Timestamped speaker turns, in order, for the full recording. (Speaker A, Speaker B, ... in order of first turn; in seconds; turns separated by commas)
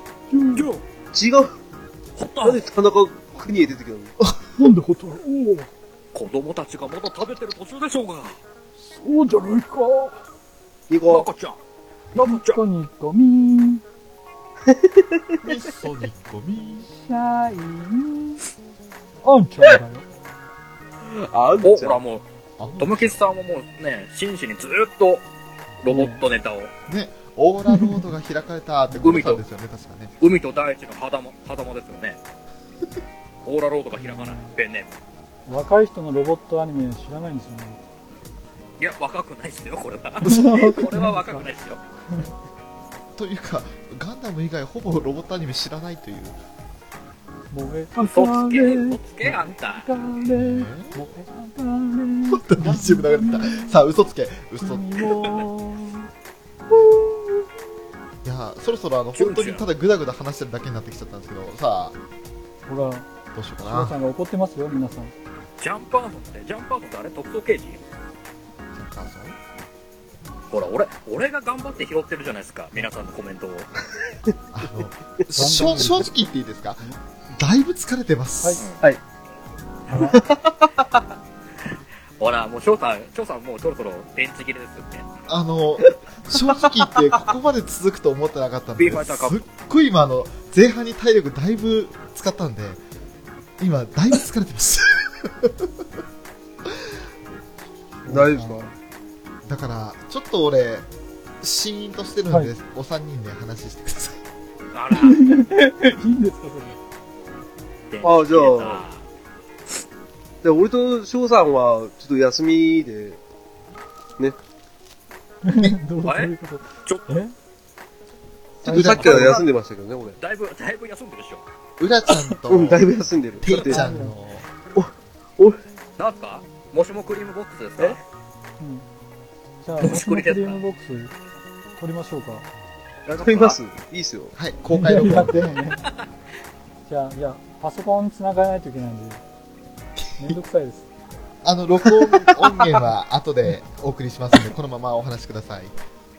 Speaker A: 0.3-0.7, Speaker B: 0.5-0.8, Speaker C: 1.1-1.5, Speaker B: 2.2-2.6, Speaker C: 2.4-4.2, Speaker A: 4.6-5.7, Speaker B: 6.1-8.4, Speaker A: 8.8-10.2, Speaker C: 10.9-11.3, Speaker B: 11.1-11.6, Speaker B: 12.1-12.6, Speaker A: 12.2-13.8, Speaker C: 14.7-15.2, Speaker D: 15.4-16.9, Speaker A: 16.9-18.4, Speaker A: 19.2-20.1, Speaker C: 21.1-22.0, Speaker B: 21.6-22.2, Speaker D: 22.6-23.2, Speaker B: 22.8-25.3, Speaker B: 25.8-26.7, Speaker A: 25.9-26.2, Speaker D: 26.9-30.1, Speaker A: 27.7-28.0, Speaker B: 29.0-29.4, Speaker B: 30.2-32.2, Speaker B: 33.4-35.0, Speaker A: 34.0-34.5, Speaker A: 35.5-37.8, Speaker B: 38.8-41.8, Speaker D: 40.2-40.9, Speaker A: 40.2-41.5, Speaker D: 43.1-46.4, Speaker A: 47.5-53.8, Speaker B: 48.0-49.9, Speaker D: 50.3-51.0, Speaker D: 52.3-55.4, Speaker A: 54.6-56.1, Speaker A: 56.8-57.3, Speaker D: 58.2-62.0, Speaker B: 59.1-59.6, Speaker A: 62.7-63.1, Speaker D: 63.3-64.0, Speaker A: 63.6-65.1, Speaker B: 65.6-67.8, Speaker D: 68.7-69.4, Speaker B: 70.5-73.7, Speaker D: 74.5-78.6, Speaker A: 75.4-76.2, Speaker A: 79.9-80.2, Speaker C: 80.1-80.8, Speaker B: 82.2-85.1, Speaker D: 85.3-92.8, Speaker B: 88.8-89.4, Speaker D: 93.6-95.7, Speaker A: 98.0-98.7, Speaker C: 98.1-98.7, Speaker D: 99.5-100.9, Speaker D: 101.4-104.2, Speaker B: 104.7-105.4, Speaker A: 104.9-106.8, Speaker B: 107.9-109.0, Speaker C: 108.0-108.8, Speaker C: 110.4-113.2, Speaker A: 115.5-117.3, Speaker B: 116.0-116.3, Speaker B: 116.8-117.1, Speaker D: 118.6-119.4, Speaker A: 118.7-118.9, Speaker C: 118.7-120.2, Speaker B: 118.7-119.5, Speaker B: 120.2-121.4, Speaker D: 121.8-122.9, Speaker C: 122.5-123.9, Speaker D: 123.4-124.4, Speaker A: 123.7-124.2, Speaker C: 124.8-125.6, Speaker B: 126.0-128.0, Speaker A: 128.6-128.9, Speaker A: 129.6-131.2, Speaker B: 129.8-130.6, Speaker A: 131.8-132.5, Speaker B: 133.1-133.6, Speaker C: 133.2-134.4, Speaker D: 134.4-135.6, Speaker A: 134.7-135.8, Speaker A: 136.9-139.2, Speaker A: 140.2-140.9, Speaker D: 141.4-145.8, Speaker C: 142.2-142.6